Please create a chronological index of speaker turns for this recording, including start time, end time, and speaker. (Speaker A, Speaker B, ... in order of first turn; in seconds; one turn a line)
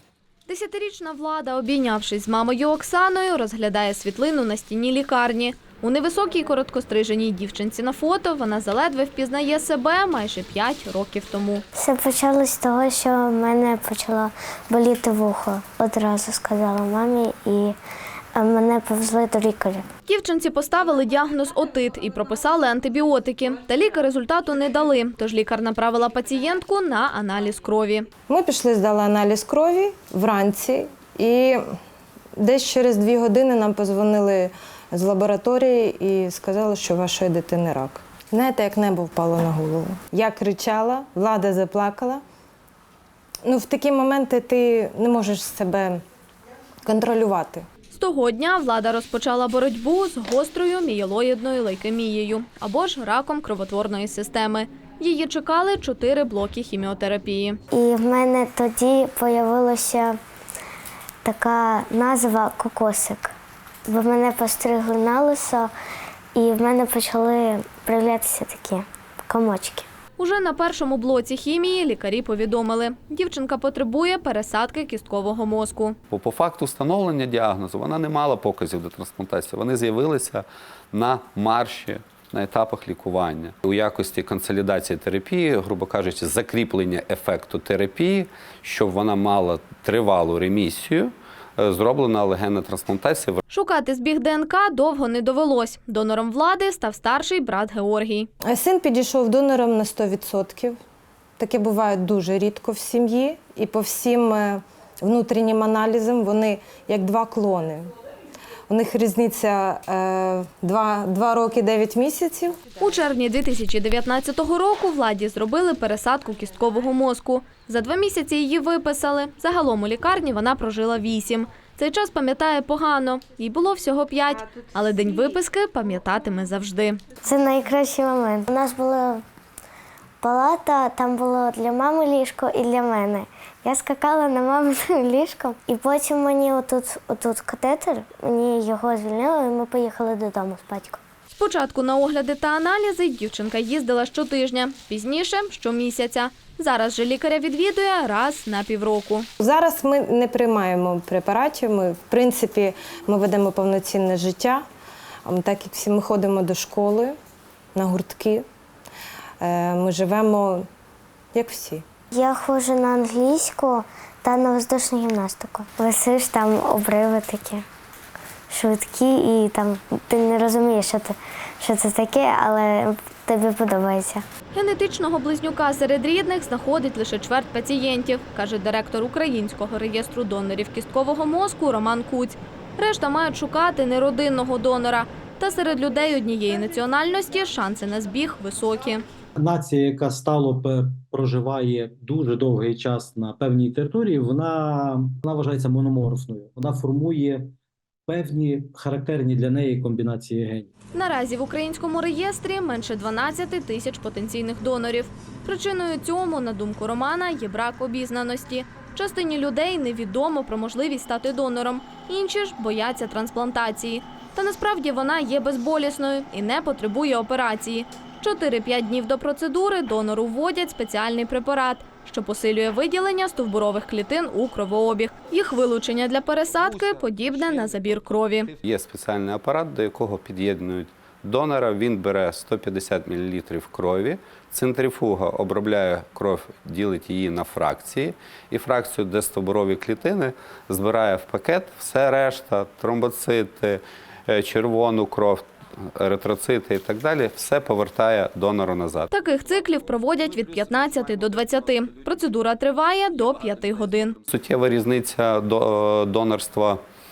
Speaker A: 0.5-11.6
Speaker B: 11.7-17.8
Speaker B: 18.3-19.9
Speaker A: 20.1-28.1
Speaker C: 28.3-31.6
Speaker C: 32.4-42.2
Speaker C: 43.4-46.0
Speaker C: 46.9-47.6
Speaker A: 47.9-57.6
Speaker B: 57.7-60.2
Speaker B: 61.2-63.3
Speaker B: 63.9-65.7
Speaker B: 66.3-69.9
Speaker A: 70.2-76.0
Speaker D: 76.1-93.4
Speaker A: 93.5-98.3
Speaker C: 98.5-100.8
Speaker C: 101.4-107.9
Speaker C: 108.7-112.6
Speaker A: 112.8-127.0
Speaker B: 127.2-129.2
Speaker B: 130.2-141.0
Speaker A: 141.3-149.3
Speaker C: 149.4-154.6
Speaker C: 155.2-157.1
Speaker C: 157.7-158.4
Speaker C: 159.4-160.7
Speaker C: 161.3-161.8
Speaker B: 162.1-167.6
Speaker B: 168.5-174.2
Speaker A: 174.5-189.0
Speaker E: 189.4-197.5
Speaker E: 198.1-200.7
Speaker A: 200.9-228.5
Speaker D: 228.5-249.1
Speaker A: 249.1-254.2
Speaker D: 254.2-256.8